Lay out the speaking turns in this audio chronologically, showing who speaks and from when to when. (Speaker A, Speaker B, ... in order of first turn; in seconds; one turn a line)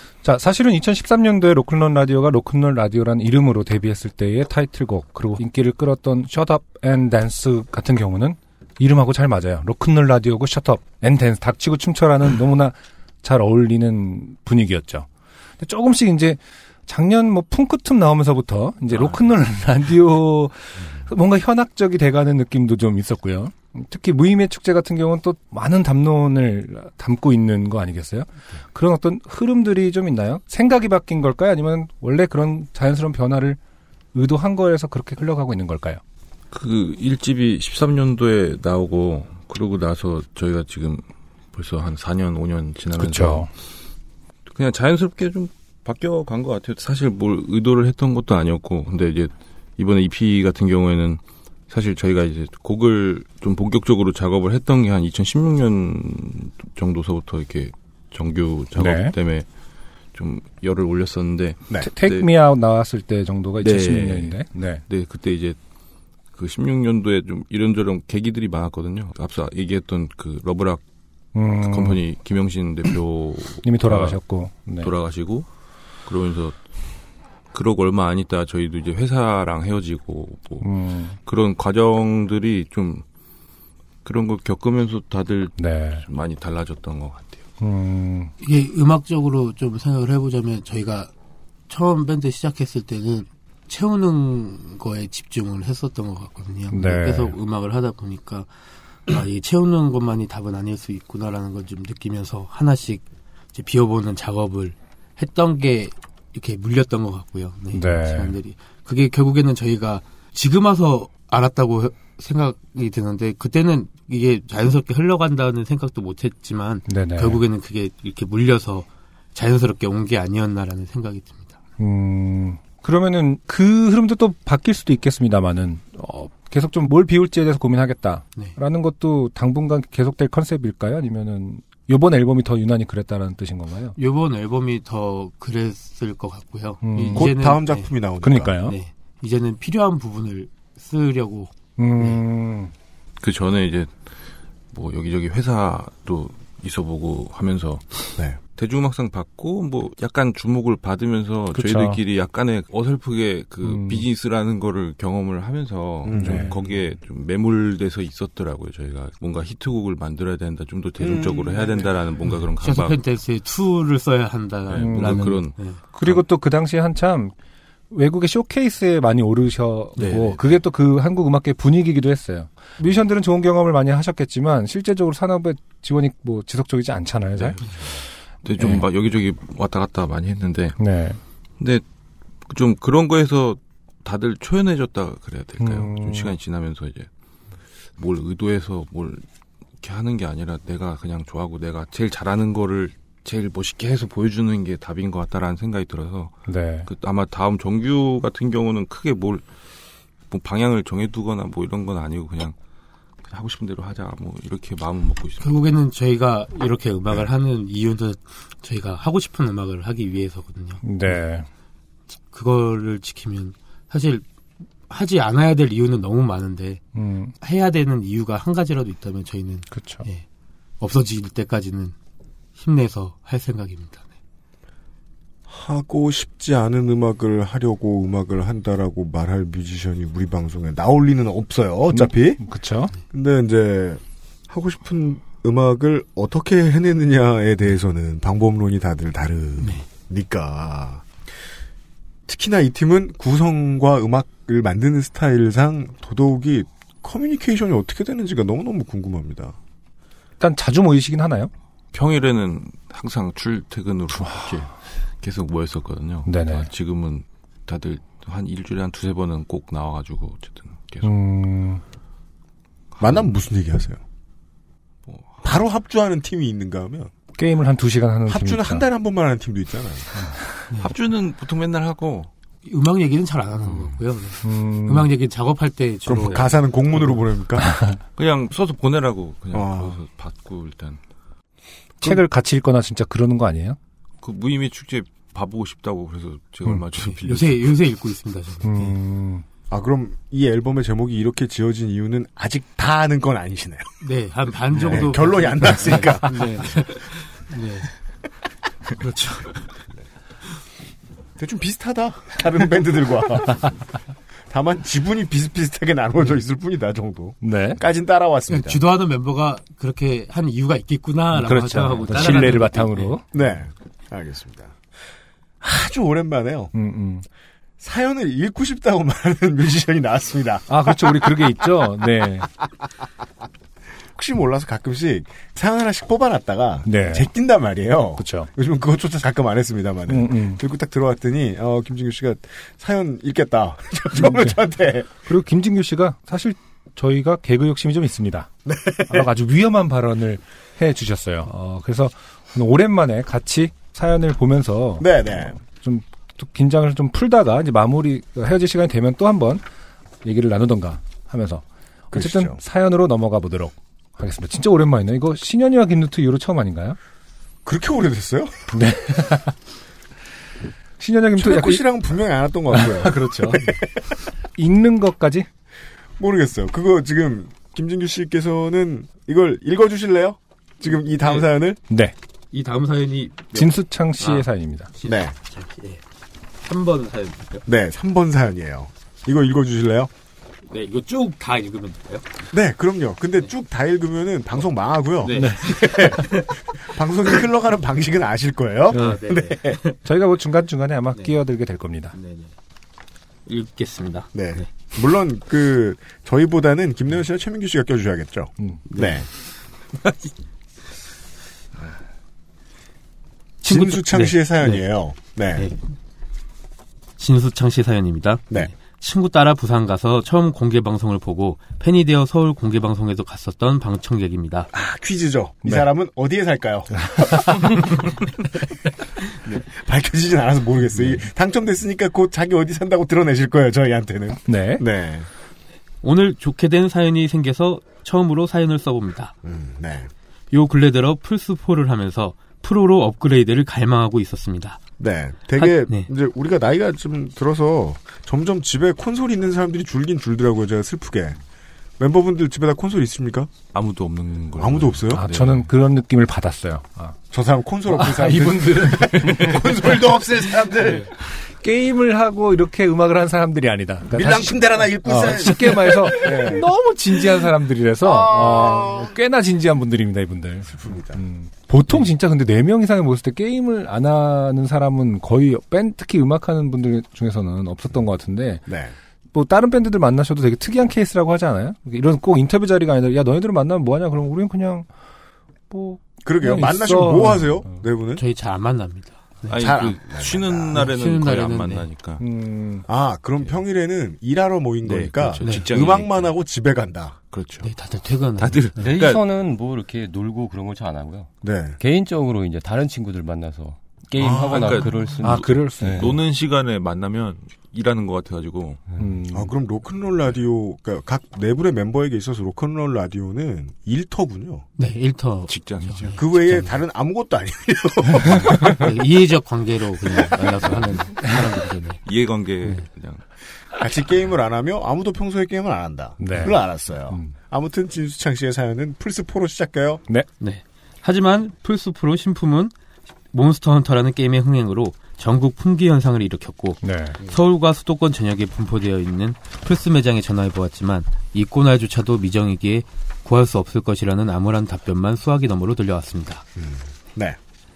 Speaker A: 0.2-15.1
Speaker A: 15.6-33.6
Speaker A: 34.1-36.0
Speaker B: 36.5-43.5
Speaker A: 43.0-43.5
Speaker B: 44.5-59.5
Speaker A: 58.8-59.1
Speaker B: 60.1-62.3
Speaker A: 61.8-64.8
Speaker B: 63.6-65.6
Speaker B: 66.3-70.8
Speaker A: 71.3-72.0
Speaker B: 71.6-75.5
Speaker A: 73.6-74.9
Speaker B: 76.1-76.6
Speaker B: 77.5-83.0
Speaker A: 80.6-81.2
Speaker B: 84.0-87.4
Speaker A: 85.6-86.0
Speaker A: 87.6-88.3
Speaker C: 88.4-91.1
Speaker C: 91.7-98.5
Speaker A: 96.7-97.4
Speaker C: 99.1-121.5
Speaker A: 107.7-108.3
Speaker A: 116.9-117.4
Speaker A: 121.8-134.0
Speaker C: 134.0-137.9
Speaker A: 136.8-137.3
Speaker D: 137.1-138.6
Speaker A: 138.2-138.8
Speaker C: 138.6-142.2
Speaker A: 141.8-142.7
Speaker B: 143.2-144.0
Speaker B: 144.7-163.0
Speaker A: 151.5-152.0
Speaker A: 153.6-154.0
Speaker D: 156.1-156.6
Speaker A: 156.2-156.6
Speaker D: 161.0-161.9
Speaker C: 162.6-165.8
Speaker B: 164.7-166.2
Speaker A: 164.8-167.3
Speaker A: 167.9-177.6
Speaker B: 170.0-170.4
Speaker B: 177.4-180.8
Speaker A: 178.6-178.9
Speaker A: 180.8-181.2
Speaker B: 182.5-187.1
Speaker A: 185.6-186.3
Speaker B: 188.0-189.2
Speaker B: 189.8-199.4
Speaker A: 196.5-196.9
Speaker B: 200.3-202.6
Speaker B: 203.3-205.6
Speaker C: 205.4-211.1
Speaker A: 210.8-211.5
Speaker C: 212.3-214.2
Speaker C: 214.9-216.8
Speaker A: 216.9-217.3
Speaker C: 217.4-220.2
Speaker A: 219.7-220.1
Speaker C: 220.8-221.9
Speaker C: 222.6-224.1
Speaker D: 225.5-232.4
Speaker A: 231.9-232.9
Speaker D: 233.1-241.1
Speaker D: 242.3-249.6
Speaker A: 250.4-251.5
Speaker B: 251.9-261.1
Speaker A: 254.1-254.6
Speaker A: 256.3-256.7
Speaker A: 261.0-261.8
Speaker B: 262.9-263.3
Speaker D: 263.0-264.0
Speaker B: 265.1-265.6
Speaker D: 265.4-267.1
Speaker A: 267.4-268.9
Speaker D: 268.3-270.3
Speaker B: 270.8-272.3
Speaker C: 272.6-277.1
Speaker A: 274.4-275.1
Speaker D: 276.1-277.7
Speaker A: 277.6-278.0
Speaker B: 278.2-281.0
Speaker D: 279.5-280.0
Speaker A: 282.0-283.8
Speaker B: 284.2-287.7
Speaker C: 287.1-288.9
Speaker A: 288.6-289.4
Speaker D: 289.7-294.0
Speaker C: 294.0-297.9
Speaker D: 294.7-296.7
Speaker C: 299.0-299.5
Speaker D: 301.4-303.7
Speaker D: 304.5-308.8
Speaker A: 307.4-307.8
Speaker C: 308.5-313.2
Speaker A: 311.3-313.2
Speaker D: 313.3-314.8
Speaker D: 315.6-316.7
Speaker A: 316.7-317.2
Speaker D: 317.8-321.6
Speaker A: 320.7-322.5
Speaker D: 324.1-335.1
Speaker A: 326.9-327.3
Speaker A: 328.2-328.5
Speaker A: 330.1-330.6
Speaker A: 334.1-334.6
Speaker A: 335.1-338.5
Speaker D: 338.6-339.3
Speaker A: 339.1-349.6
Speaker D: 345.0-345.6
Speaker A: 350.2-357.0
Speaker D: 352.1-352.6
Speaker D: 357.6-358.6
Speaker A: 358.7-359.5
Speaker A: 361.0-361.9
Speaker D: 361.4-363.9
Speaker A: 362.7-363.7
Speaker A: 364.6-365.5
Speaker D: 366.2-371.8
Speaker C: 370.9-371.5
Speaker A: 371.9-372.1
Speaker C: 372.5-376.0
Speaker A: 373.5-374.9
Speaker D: 375.1-375.3
Speaker C: 376.6-377.6
Speaker D: 377.7-380.1
Speaker C: 380.7-382.2
Speaker D: 382.5-389.8
Speaker C: 385.2-386.5
Speaker A: 385.3-386.2
Speaker A: 388.9-389.2
Speaker C: 388.9-390.0
Speaker A: 390.0-392.1
Speaker C: 392.1-392.5
Speaker C: 393.5-394.9
Speaker D: 394.3-399.3
Speaker C: 398.9-399.2
Speaker C: 403.6-404.8
Speaker D: 403.6-405.7
Speaker C: 407.2-414.7
Speaker D: 414.7-417.5
Speaker A: 417.0-417.9
Speaker D: 419.4-425.3
Speaker A: 424.5-424.8
Speaker C: 426.0-429.4
Speaker D: 429.4-430.1
Speaker C: 430.5-434.8
Speaker D: 435.0-441.4
Speaker C: 435.6-436.1
Speaker D: 442.0-443.5
Speaker B: 443.7-445.7
Speaker D: 444.6-445.3
Speaker A: 445.1-447.2
Speaker D: 447.3-451.1
Speaker A: 447.9-449.9
Speaker A: 451.4-468.6
Speaker D: 454.1-456.7
Speaker D: 458.0-459.1
Speaker D: 460.7-461.2
Speaker D: 468.7-468.9
Speaker A: 469.3-474.9
Speaker A: 475.7-477.7
Speaker D: 476.2-478.2
Speaker C: 478.2-479.8
Speaker B: 479.5-482.2
Speaker D: 479.5-480.9
Speaker C: 480.7-481.9
Speaker A: 482.2-482.9
Speaker D: 482.9-487.2
Speaker B: 484.8-486.3
Speaker C: 485.4-485.7
Speaker B: 487.3-487.7
Speaker C: 487.6-488.9
Speaker B: 488.4-489.2
Speaker E: 488.8-496.1
Speaker D: 491.4-491.8
Speaker D: 494.2-494.9
Speaker B: 494.4-498.8
Speaker A: 495.2-496.1
Speaker A: 499.0-499.5
Speaker D: 499.3-504.7
Speaker C: 504.8-506.7
Speaker B: 505.5-506.2
Speaker D: 506.1-508.9
Speaker C: 508.8-512.0
Speaker B: 512.0-513.2
Speaker D: 513.8-520.0
Speaker A: 516.2-517.4
Speaker C: 520.4-522.7
Speaker C: 523.3-536.4
Speaker A: 526.8-527.2
Speaker D: 536.6-537.4